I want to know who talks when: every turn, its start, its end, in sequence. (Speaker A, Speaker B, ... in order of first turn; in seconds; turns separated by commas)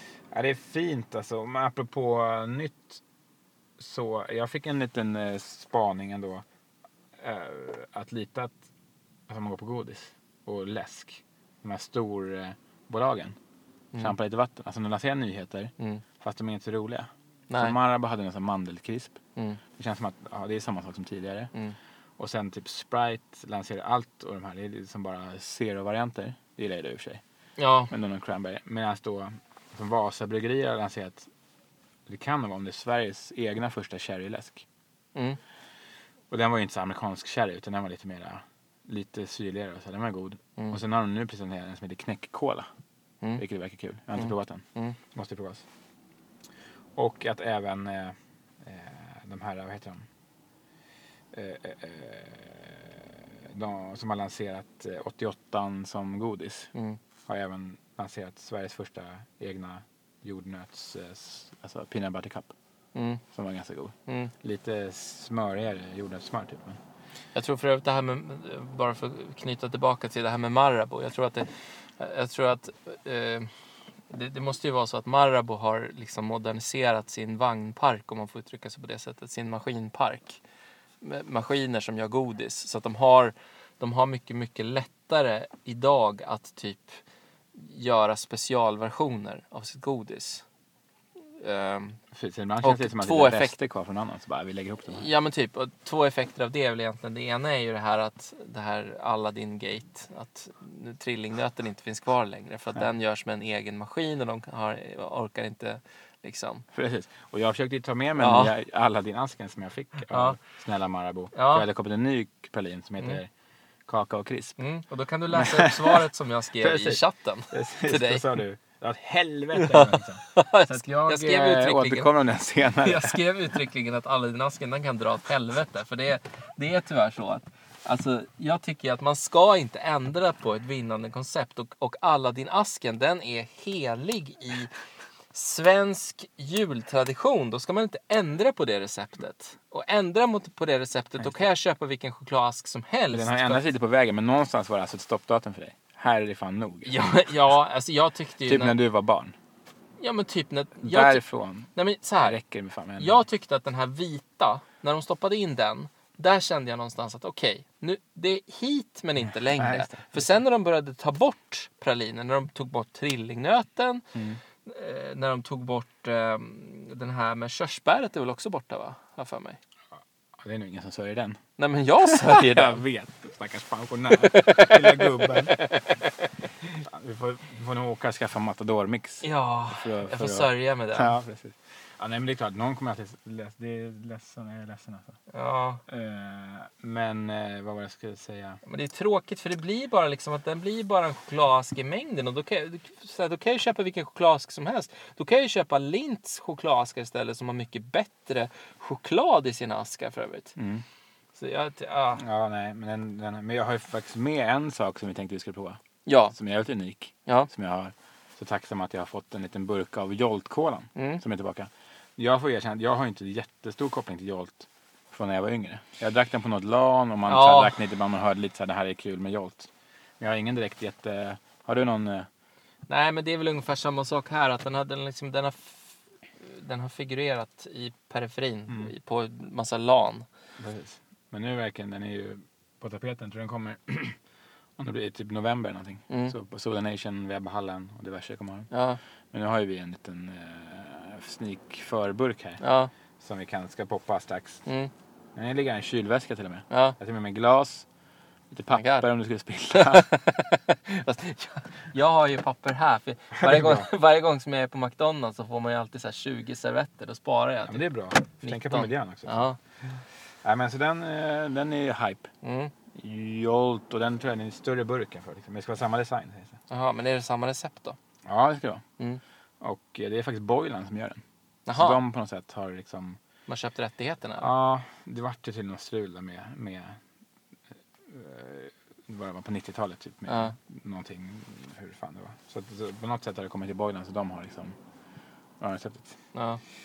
Speaker A: 0.3-3.0, Speaker A: 3.8-6.4, Speaker A: 7.2-8.7, Speaker A: 9.3-13.4, Speaker A: 14.0-19.2, Speaker B: 17.5-17.8, Speaker B: 19.4-19.6, Speaker A: 19.8-21.5, Speaker A: 22.2-27.2, Speaker B: 27.6-27.9, Speaker A: 27.9-31.3, Speaker A: 32.1-34.6, Speaker A: 36.3-42.7, Speaker A: 43.4-45.6, Speaker B: 44.1-45.0, Speaker A: 47.0-50.0, Speaker A: 51.3-56.7, Speaker B: 56.7-57.0, Speaker A: 57.3-62.5, Speaker B: 62.9-63.2, Speaker A: 63.3-66.8, Speaker B: 64.1-64.3, Speaker B: 67.3-73.5, Speaker B: 74.1-80.4, Speaker B: 81.0-87.0, Speaker B: 87.5-90.4, Speaker B: 91.4-92.0, Speaker A: 92.1-95.1, Speaker B: 92.6-93.5, Speaker B: 94.9-106.7, Speaker A: 106.7-113.3, Speaker B: 108.2-108.5, Speaker B: 110.1-110.4, Speaker B: 111.3-111.7, Speaker A: 113.9-114.6, Speaker B: 114.6-118.2, Speaker A: 115.3-123.2, Speaker B: 119.5-122.1, Speaker B: 122.8-134.7, Speaker B: 135.3-143.6, Speaker A: 143.1-147.3, Speaker B: 146.8-148.8, Speaker A: 148.4-149.3, Speaker B: 150.0-151.2, Speaker A: 150.8-151.7, Speaker B: 151.7-152.4, Speaker A: 152.2-153.2, Speaker B: 153.0-169.6, Speaker A: 159.2-160.4, Speaker A: 164.1-164.4, Speaker A: 170.4-171.4, Speaker B: 171.6-172.8, Speaker A: 172.0-175.6, Speaker B: 174.2-175.9, Speaker A: 176.6-185.2, Speaker B: 179.2-181.2, Speaker B: 185.3-185.8, Speaker A: 185.9-188.6, Speaker B: 188.6-200.6, Speaker A: 200.6-200.8, Speaker B: 201.3-202.2, Speaker A: 202.2-205.8, Speaker B: 206.1-206.3, Speaker A: 206.3-222.3, Speaker B: 210.9-211.2, Speaker B: 217.3-217.8, Speaker B: 222.9-230.2, Speaker A: 230.6-234.2, Speaker A: 234.8-238.7, Speaker B: 236.1-236.3, Speaker B: 238.7-239.0, Speaker A: 239.3-242.6, Speaker B: 242.6-242.9, Speaker A: 243.2-244.6, Speaker B: 244.7-244.9, Speaker A: 245.3-247.9, Speaker B: 246.7-247.0, Speaker A: 248.5-250.1, Speaker B: 248.7-249.1, Speaker B: 249.7-257.8, Speaker A: 253.3-253.9, Speaker A: 257.6-259.4, Speaker B: 258.4-259.6, Speaker A: 260.4-262.3, Speaker B: 262.4-262.7, Speaker A: 262.9-266.6, Speaker B: 266.7-268.0, Speaker A: 268.2-268.8, Speaker A: 269.6-271.2, Speaker B: 271.7-272.0, Speaker A: 271.7-273.2, Speaker B: 273.5-274.5, Speaker A: 274.4-277.0, Speaker A: 278.0-284.8, Speaker B: 280.3-280.5, Speaker A: 285.6-286.2, Speaker B: 286.3-286.6